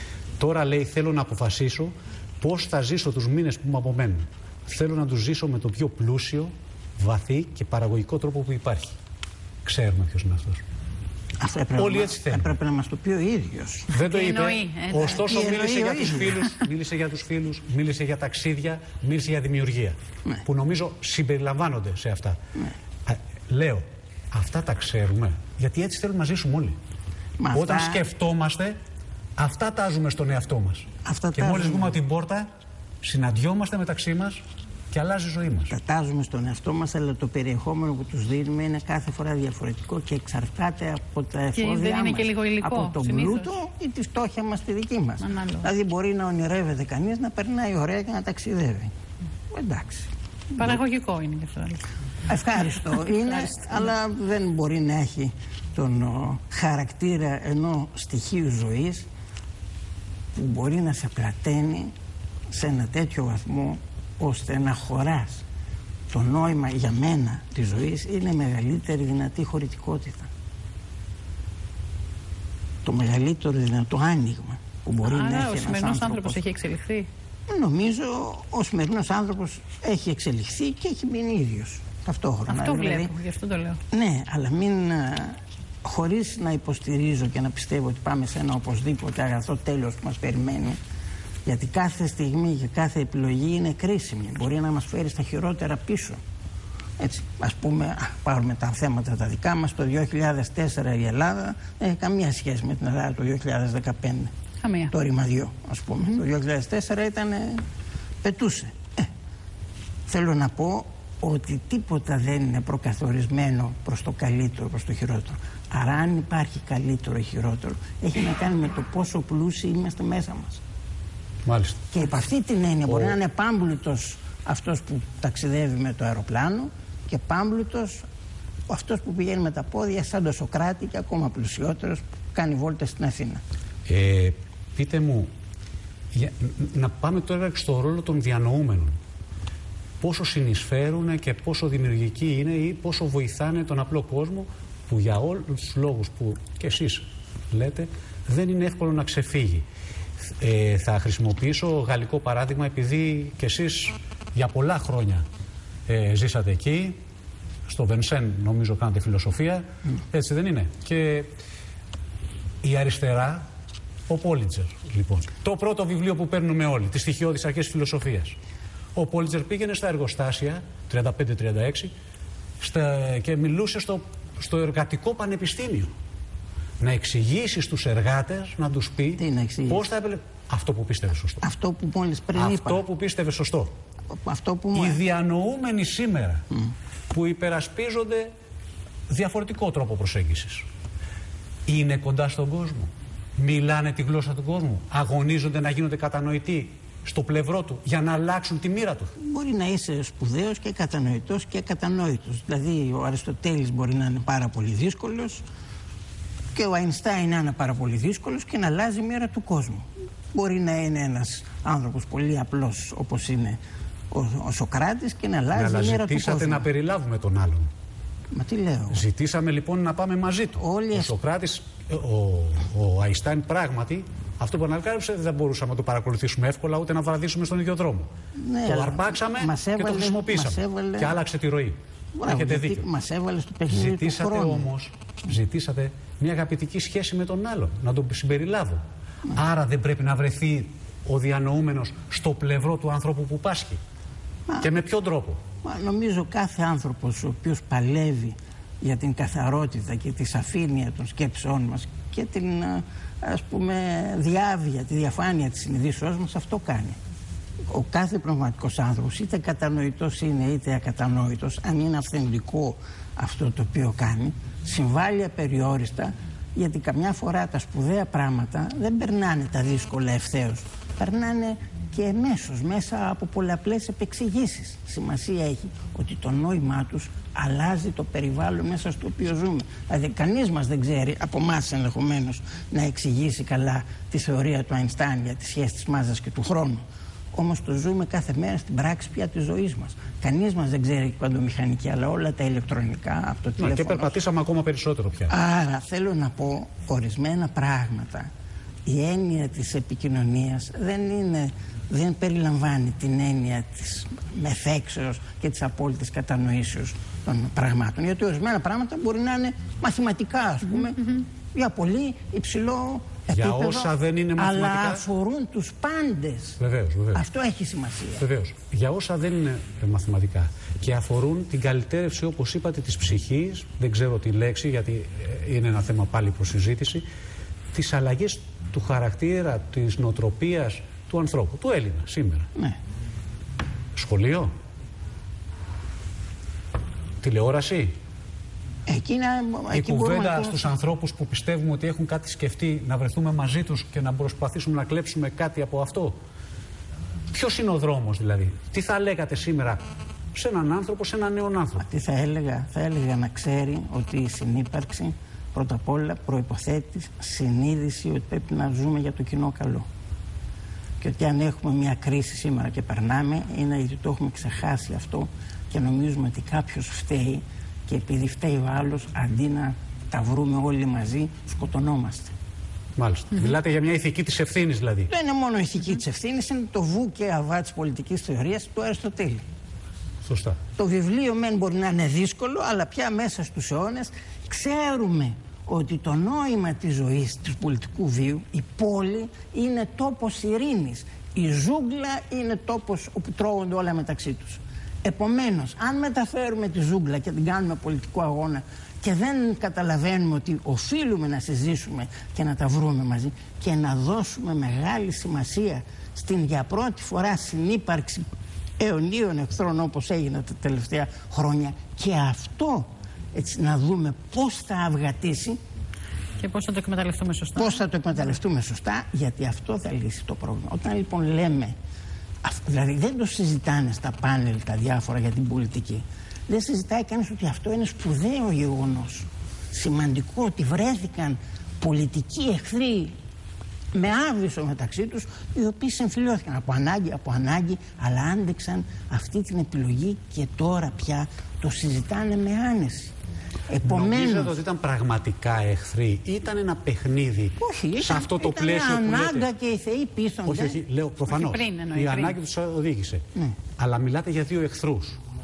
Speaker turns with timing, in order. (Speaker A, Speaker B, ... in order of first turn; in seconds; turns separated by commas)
Speaker A: 0.4-9.0, Speaker A: 9.7-10.6, Speaker B: 11.4-13.9, Speaker A: 11.8-12.6, Speaker A: 13.9-22.4, Speaker C: 14.0-15.2, Speaker B: 15.1-16.6, Speaker A: 23.1-26.8, Speaker B: 27.4-28.0, Speaker A: 27.5-28.8, Speaker A: 29.4-32.5, Speaker B: 31.1-32.0, Speaker A: 33.0-35.7, Speaker B: 35.7-48.9, Speaker C: 41.6-43.5, Speaker C: 45.2-45.7, Speaker B: 49.5-50.1, Speaker C: 50.6-51.8, Speaker B: 52.3-59.1, Speaker C: 53.0-53.5, Speaker B: 60.4-61.9, Speaker B: 62.5-65.4, Speaker B: 66.1-70.3, Speaker B: 72.8-76.4, Speaker C: 75.0-77.1, Speaker B: 77.5-83.1, Speaker C: 82.5-83.8, Speaker B: 83.9-90.8, Speaker B: 91.5-96.2, Speaker B: 97.0-104.3, Speaker C: 104.6-104.9, Speaker B: 104.9-107.6, Speaker B: 108.2-109.1, Speaker B: 110.1-120.6, Speaker A: 121.5-121.8, Speaker B: 121.9-128.1, Speaker A: 122.9-123.2, Speaker B: 128.7-133.4, Speaker A: 133.9-135.3, Speaker A: 136.1-139.0, Speaker A: 140.0-149.7, Speaker A: 150.2-155.2, Speaker A: 155.9-157.0, Speaker A: 157.7-161.3, Speaker A: 162.6-163.5, Speaker A: 164.1-168.4, Speaker A: 168.9-171.9, Speaker A: 172.6-175.9, Speaker A: 176.8-181.4, Speaker B: 179.2-179.8, Speaker B: 181.4-182.8, Speaker A: 182.3-183.7, Speaker B: 184.1-185.0, Speaker A: 184.7-186.4, Speaker A: 187.1-188.3, Speaker A: 189.1-190.7, Speaker A: 191.7-199.1, Speaker B: 199.2-205.4, Speaker B: 206.5-213.6, Speaker B: 214.1-216.7, Speaker A: 215.5-217.7, Speaker B: 218.3-219.0, Speaker A: 218.9-228.1, Speaker B: 220.6-221.2, Speaker B: 228.4-231.2, Speaker A: 228.7-232.9, Speaker B: 232.2-234.7, Speaker A: 233.7-238.8, Speaker A: 239.3-243.8, Speaker A: 244.6-245.4, Speaker B: 245.6-257.0, Speaker B: 257.7-286.8, Speaker B: 287.3-294.2, Speaker A: 293.6-295.3, Speaker B: 295.3-298.3, Speaker B: 298.9-316.6, Speaker A: 313.3-315.0, Speaker A: 316.6-317.2, Speaker B: 317.1-318.3, Speaker A: 318.2-327.1, Speaker A: 327.7-332.5, Speaker A: 333.9-334.5, Speaker A: 337.2-337.9, Speaker B: 338.9-340.7, Speaker A: 339.7-346.2, Speaker A: 347.3-349.8, Speaker A: 350.3-351.9, Speaker B: 351.8-359.9, Speaker B: 361.0-372.3, Speaker A: 373.0-375.1, Speaker B: 375.1-379.4, Speaker A: 380.2-380.6, Speaker B: 380.8-408.3, Speaker B: 408.8-415.6, Speaker C: 416.4-417.8, Speaker B: 417.6-421.8, Speaker B: 422.4-433.1, Speaker B: 433.9-443.1, Speaker B: 443.7-444.6, Speaker A: 443.8-449.5, Speaker B: 447.6-450.8, Speaker A: 450.5-453.2, Speaker C: 451.3-452.4, Speaker A: 453.8-455.2